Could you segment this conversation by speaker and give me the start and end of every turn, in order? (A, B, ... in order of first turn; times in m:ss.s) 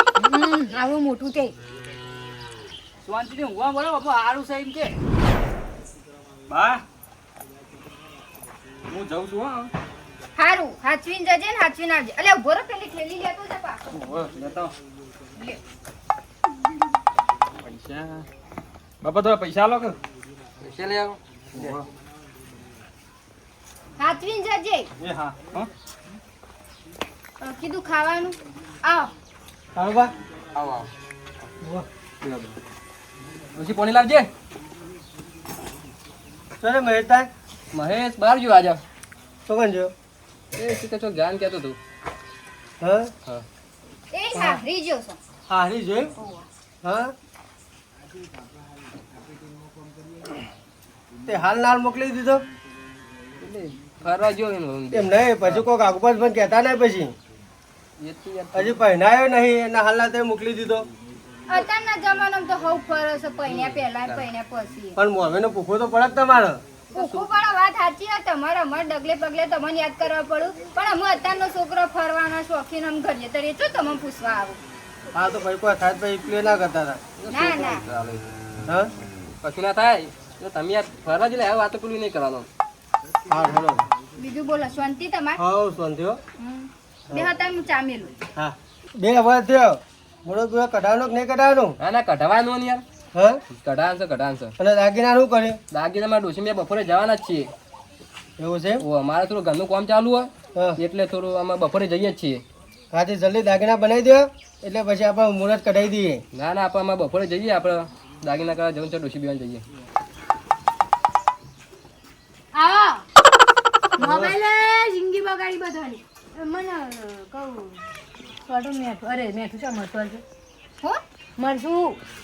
0:00.2-0:01.5 A
0:03.0-0:04.9 B
0:06.5-0:06.8 B
0:08.9-0:09.7 B
0:10.4-0:13.8 C
0:13.9-0:14.7 B
0:17.7-0:18.2 B
0:19.0-0:19.9 B
0:20.6-0:21.8 D
0:24.0-0:24.9 C
0:25.2-0:25.7 B
0:27.4-0:29.1 C
0:29.7-0:30.1 E
0:30.6-0:30.9 D
0:31.6-0:31.8 E
0:33.6-0:34.3 D
0:36.6-0:37.3 E
0:37.7-0:38.8 D
0:39.5-0:39.9 E
0:40.6-0:41.8 D
0:42.8-0:43.1 E
0:44.1-0:45.2 C
0:45.5-0:46.1 E
0:46.2-0:46.4 C
0:46.8-0:47.1 E
0:51.2-0:52.4 E
0:53.4-0:55.6 D
0:54.9-0:57.1 E
0:58.0-0:58.8 D
0:58.5-1:00.9 E
1:01.5-1:05.0 C
1:03.5-1:04.2 D
1:05.0-1:06.6 E
1:06.9-1:07.3 D
1:06.9-1:14.6 C
1:15.1-1:17.0 E
1:17.2-1:18.2 D
1:17.3-1:17.8 C
1:19.4-1:22.4 D
1:23.3-1:23.8 E
1:24.2-1:25.4 C
1:25.4-1:26.2 E
1:26.4-1:28.1 C
1:28.4-1:31.7 E
1:31.8-1:32.8 D
1:33.1-1:33.4 E
1:33.5-1:34.5 D
1:34.6-1:35.6 E
1:35.7-1:37.5 D
1:38.4-1:38.8 E
1:38.8-1:42.4 D
1:42.9-1:46.2 E
1:46.3-1:49.6 D
1:54.0-1:54.3 E
1:54.1-1:57.7 A
1:58.5-2:00.2 A
2:01.4-2:02.0 A